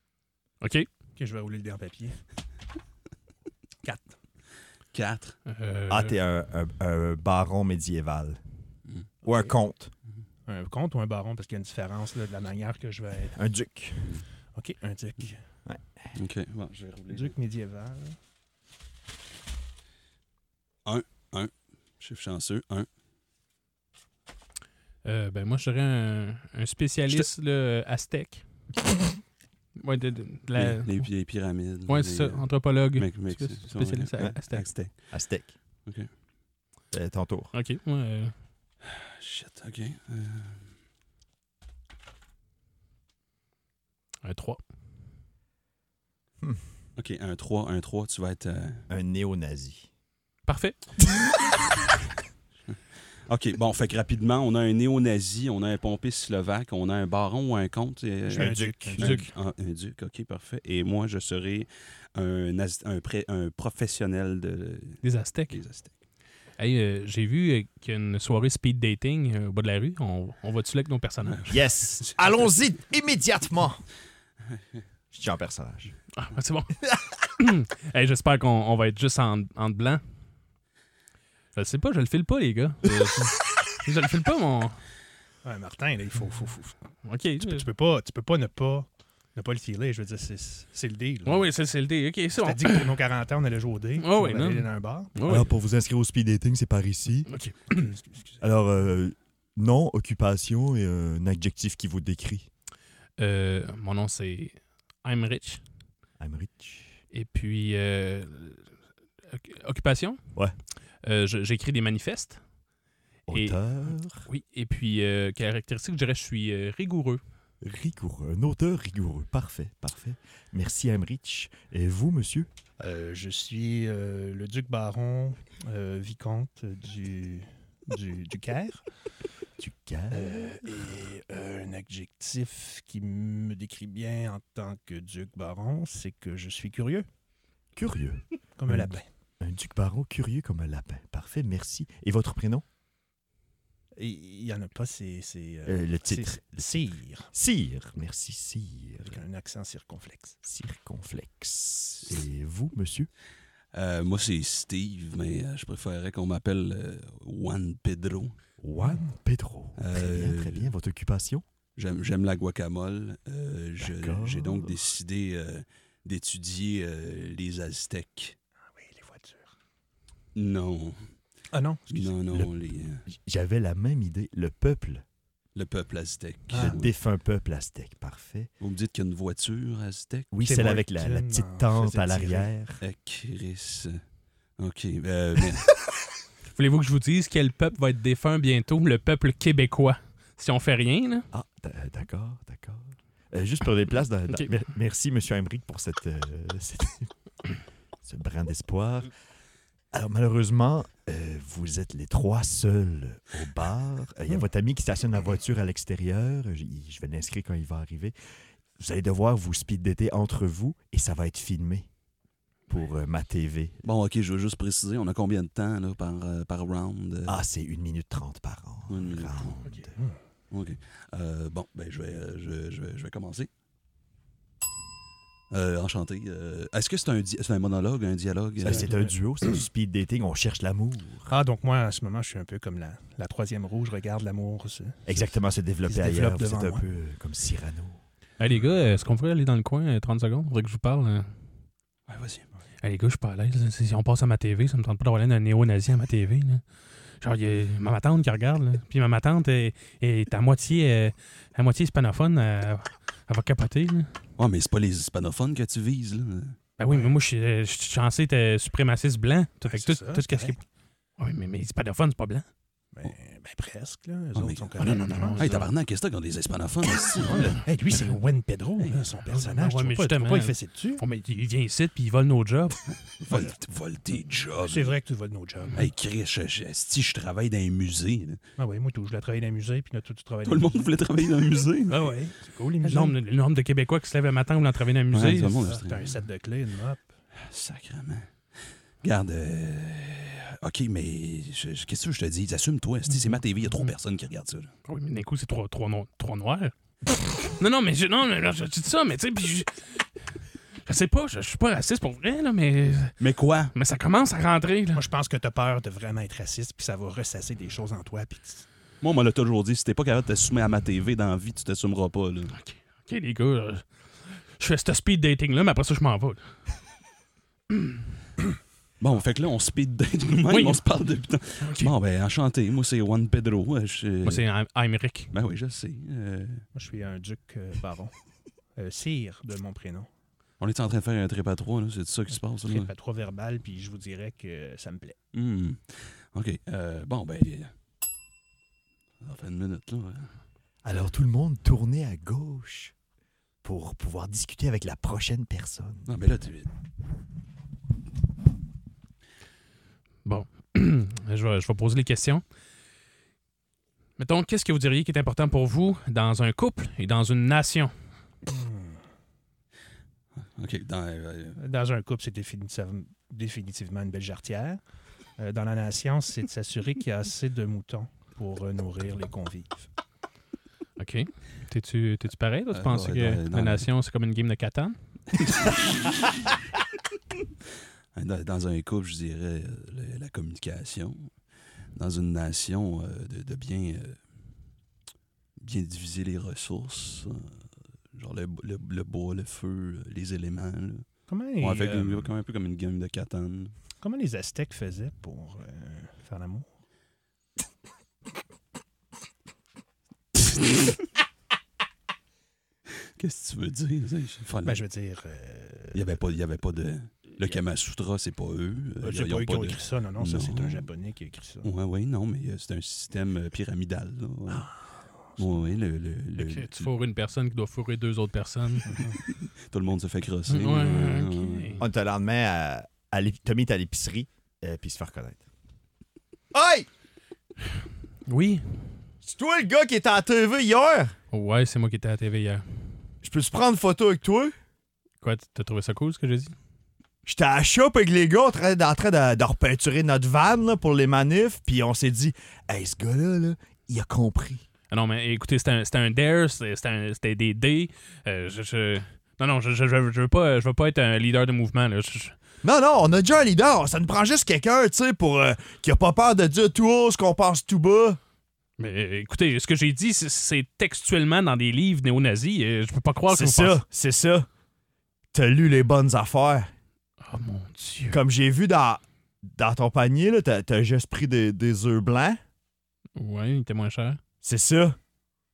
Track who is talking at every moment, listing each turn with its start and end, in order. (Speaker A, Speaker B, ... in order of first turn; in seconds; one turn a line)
Speaker A: 0.6-0.9
Speaker B: 1.2-2.1
Speaker B: 3.8-4.1
Speaker C: 4.9-5.4
Speaker A: 5.5-6.1
Speaker D: 5.9-8.4
Speaker B: 9.2-9.5
Speaker D: 9.2-9.9
Speaker B: 10.4-13.4
Speaker D: 13.3-14.1
Speaker B: 14.5-15.4
Speaker C: 16.1-17.3
Speaker B: 17.1-18.1
Speaker C: 20.9-22.9
Speaker A: 25.0-28.4
Speaker A: 29.8-30.9
Speaker C: 30.6-34.9
Speaker A: 31.9-34.6
Speaker D: 35.1-35.5
Speaker D: 36.9-37.5
Speaker A: 37.5-38.3
Speaker C: 38.9-40.6
Speaker A: 44.2-44.6
Speaker C: 47.0-48.8
Speaker D: 48.9-49.9
Speaker A: 50.5-50.8
Speaker C: 53.3-65.0
Speaker D: 58.3-59.3
Speaker B: 58.3-59.1
Speaker A: 65.0-65.6
Speaker C: 65.5-65.9
Speaker A: 66.6-71.6
Speaker D: 71.5-73.8
Speaker D: 75.1-75.9
Speaker A: 76.2-76.8
Speaker A: 77.4-80.0
Speaker A: 81.5-84.8
Speaker B: 85.4-86.8
Speaker A: 87.0-87.7
Speaker B: 87.4-91.5
Speaker A: 91.2-92.9
Speaker B: 92.4-95.2
Speaker A: 94.0-95.5
Speaker D: 95.2-97.3
Speaker A: 97.3-97.9
Speaker B: 97.7-98.4
Speaker D: 98.4-102.5
Speaker A: 103.2-105.6
Speaker D: 106.2-107.0
Speaker A: 107.1-108.6
Speaker A: 109.3-110.2
Speaker A: 111.0-112.4
Speaker D: 113.3-114.2
Speaker A: 113.3-113.6
Speaker A: 114.2-117.2
Speaker D: 117.6-122.5
Speaker B: 122.8-128.8
Speaker D: 129.6-130.6
Speaker B: 130.1-137.1
Speaker D: 137.8-142.6
Speaker B: 138.6-139.1
Speaker B: 143.9-147.3
Speaker D: 145.7-146.6
Speaker D: 147.3-149.2
Speaker B: 149.0-150.3
Speaker D: 150.4-153.1
Speaker C: 153.7-158.3
Speaker D: 158.6-161.4
Speaker B: 158.8-159.1
Speaker C: 159.8-160.7
Speaker C: 161.8-168.3
Speaker D: 163.8-164.8
Speaker B: 168.7-169.5
Speaker C: 170.3-171.0
Speaker B: 171.5-172.0
Speaker C: 171.9-173.0
Speaker D: 173.1-175.0
Speaker C: 175.5-176.9
Speaker B: 176.5-176.8
Speaker D: 176.5-178.5
Speaker C: 178.6-180.3
Speaker D: 180.3-182.8
Speaker B: 180.4-182.5
Speaker C: 182.8-184.0
Speaker C: 184.6-185.7
Speaker A: 186.5-191.3
Speaker D: 191.3-197.1
Speaker D: 198.0-199.1
Speaker D: 199.9-208.1
Speaker D: 208.8-211.9
Speaker D: 212.7-213.8
Speaker C: 213.8-217.4
Speaker D: 217.3-219.9
Speaker C: 218.9-219.6
Speaker C: 220.5-223.5
Speaker C: 225.5-228.9
Speaker D: 228.6-231.3
Speaker B: 228.7-229.1
Speaker B: 231.3-235.2
Speaker D: 235.1-238.0
Speaker B: 235.8-236.8
Speaker A: 238.4-241.2
Speaker C: 242.1-242.4
Speaker A: 242.8-246.6
Speaker A: 247.2-254.2
Speaker C: 254.4-256.6
Speaker A: 256.8-260.6
Speaker B: 256.9-257.1
Speaker B: 259.6-260.6
Speaker A: 261.2-262.5
Speaker B: 262.9-265.6
Speaker C: 264.3-267.6
Speaker A: 264.8-265.7
Speaker B: 267.6-271.0
Speaker A: 269.3-272.8
Speaker C: 273.2-274.9
Speaker B: 273.3-273.5
Speaker B: 274.6-275.8
Speaker C: 275.7-278.4
Speaker B: 278.6-280.9
Speaker C: 280.4-282.1
Speaker B: 281.9-283.1
Speaker A: 282.8-285.7
Speaker C: 285.1-286.2
Speaker B: 285.6-287.1
Speaker C: 287.4-288.3
Speaker C: 289.0-294.7
Speaker A: 294.9-300.1
Speaker A: 300.8-303.1
Speaker C: 303.2-303.7
Speaker A: 303.7-305.0
Speaker B: 304.9-308.6
Speaker C: 309.0-312.5
Speaker A: 312.5-313.8
Speaker A: 314.6-316.6
Speaker C: 319.0-324.4
Speaker A: 320.5-320.8
Speaker A: 321.6-321.9
Speaker A: 324.2-325.3
Speaker C: 325.3-326.6
Speaker B: 326.7-328.1
Speaker B: 328.7-330.1
Speaker C: 330.6-332.9
Speaker B: 332.6-335.1
Speaker C: 335.3-337.7
Speaker C: 339.2-340.3
Speaker D: 340.8-342.9
Speaker D: 343.6-346.1
Speaker C: 346.1-346.7
Speaker A: 350.2-352.4
Speaker A: 354.2-357.9
Speaker B: 358.5-359.0
Speaker C: 360.4-361.6
Speaker B: 361.6-364.8
Speaker B: 365.4-369.9
Speaker A: 371.0-374.9
Speaker C: 372.7-373.8
Speaker C: 375.4-376.2
Speaker C: 378.1-381.3
Speaker C: 381.9-384.2
Speaker C: 385.6-387.6
Speaker C: 388.1-391.1
Speaker B: 391.3-392.3
Speaker C: 391.6-393.7
Speaker B: 394.0-396.7
Speaker C: 403.2-404.8
Speaker B: 404.6-406.0
Speaker C: 405.9-410.9
Speaker B: 409.0-411.7
Speaker C: 411.6-414.7
Speaker B: 414.5-414.8
Speaker C: 415.4-416.9
Speaker A: 416.4-418.9
Speaker B: 418.9-419.2
Speaker C: 419.7-421.8
Speaker A: 420.5-421.8
Speaker D: 421.8-425.4
Speaker D: 426.5-426.9
Speaker A: 428.2-428.6
Speaker D: 429.2-431.1
Speaker A: 431.3-432.6
Speaker D: 433.2-434.5
Speaker A: 435.2-436.5
Speaker D: 437.2-444.6
Speaker A: 444.9-452.3
Speaker D: 452.6-458.2
Speaker A: 458.8-463.8
Speaker D: 463.3-464.5
Speaker D: 465.3-466.7
Speaker A: 467.2-468.2
Speaker D: 468.1-472.4
Speaker A: 473.2-474.2
Speaker D: 474.4-475.0